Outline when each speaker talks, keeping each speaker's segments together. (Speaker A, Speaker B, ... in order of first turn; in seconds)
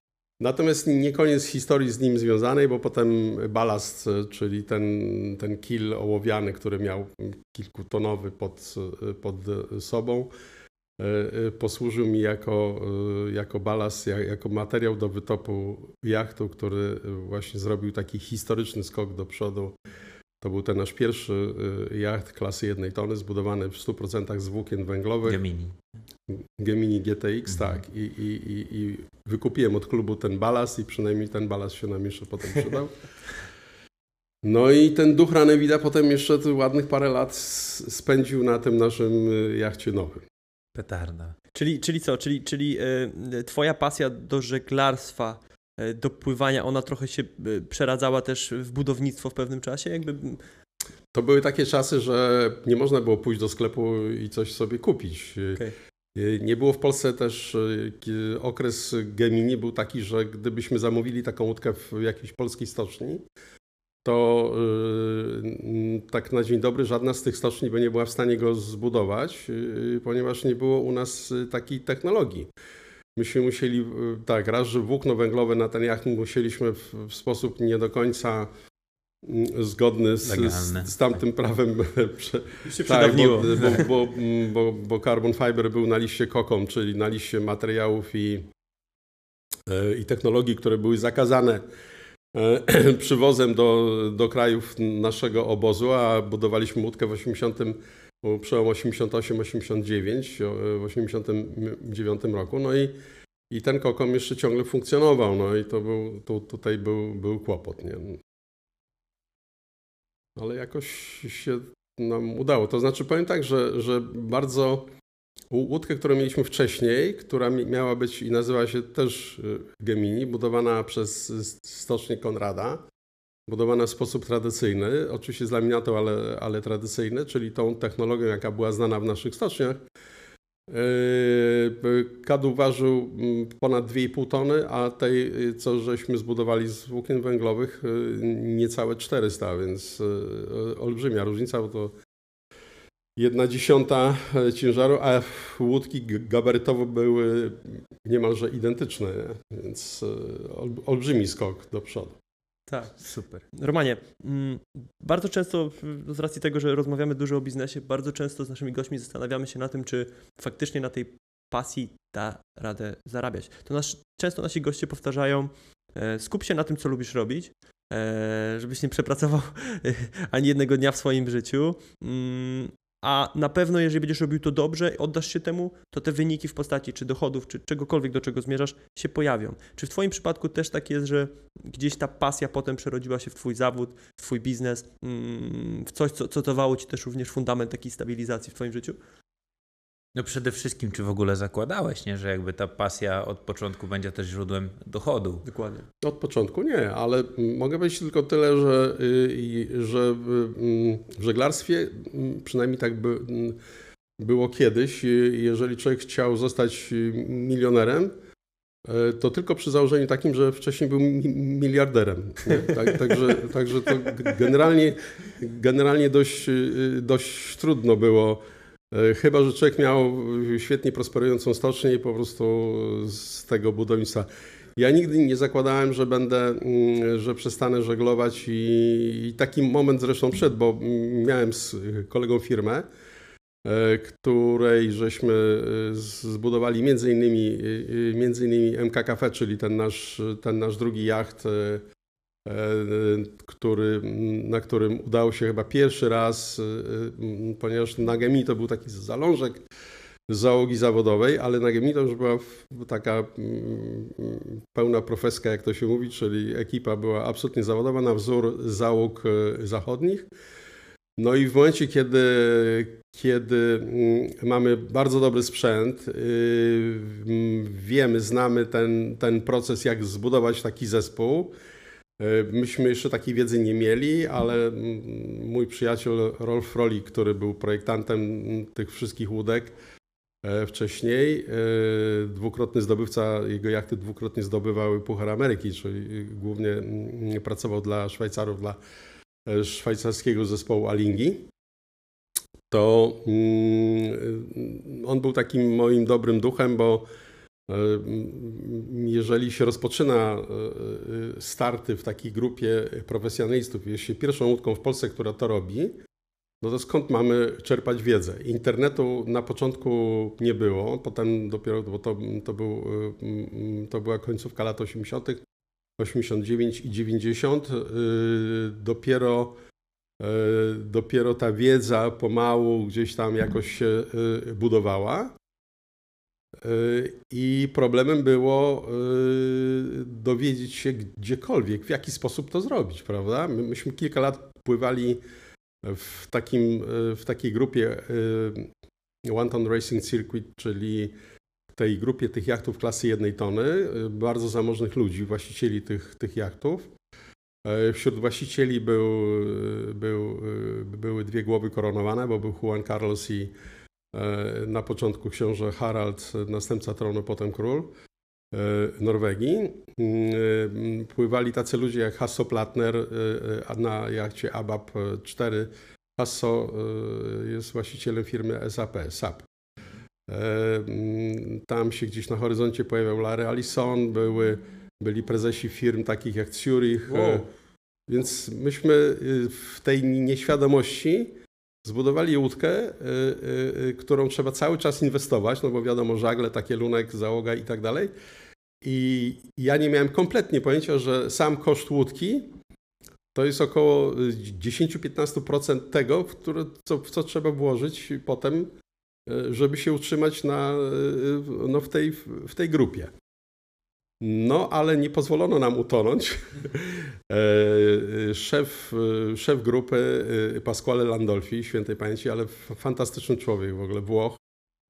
Speaker A: 0.4-10.3, 11.0-19.7, 20.4-25.4, 26.3-33.0, 34.4-40.2, 51.1-55.6, 56.1-63.2, 64.0-72.5, 73.2-78.5, 79.2-88.5, 89.7-91.6, 92.3-102.9, 103.5-108.2, 110.3-114.9, 115.5-122.8, 123.5-129.8, 130.7-141.9, 143.2-152.2, 196.0-203.6, 204.2-208.1, 208.8-232.9, 233.6-241.8, 242.4-249.6, 250.3-260.3, 261.2-271.5, 272.2-279.7, 280.4-288.8, 289.4-291.5, 292.7-297.1, 297.7-305.9, 306.6-315.4, 316.0-319.6, 320.2-325.4, 326.6-335.2, 335.8-338.7, 339.3-341.1, 341.7-346.9, 347.6-353.5, 354.1-357.9, 358.5-369.4, 370.3-377.4, 378.1-388.1, 388.8-392.5, 393.3-398.7, 399.3-403.1, 404.2-414.4
Speaker B: 25.3-25.7, 27.5-27.8, 40.7-41.3, 80.2-81.1, 190.1-195.4
Speaker C: 41.5-50.4, 82.7-83.8, 152.7-189.0, 195.4-195.9, 377.1-377.4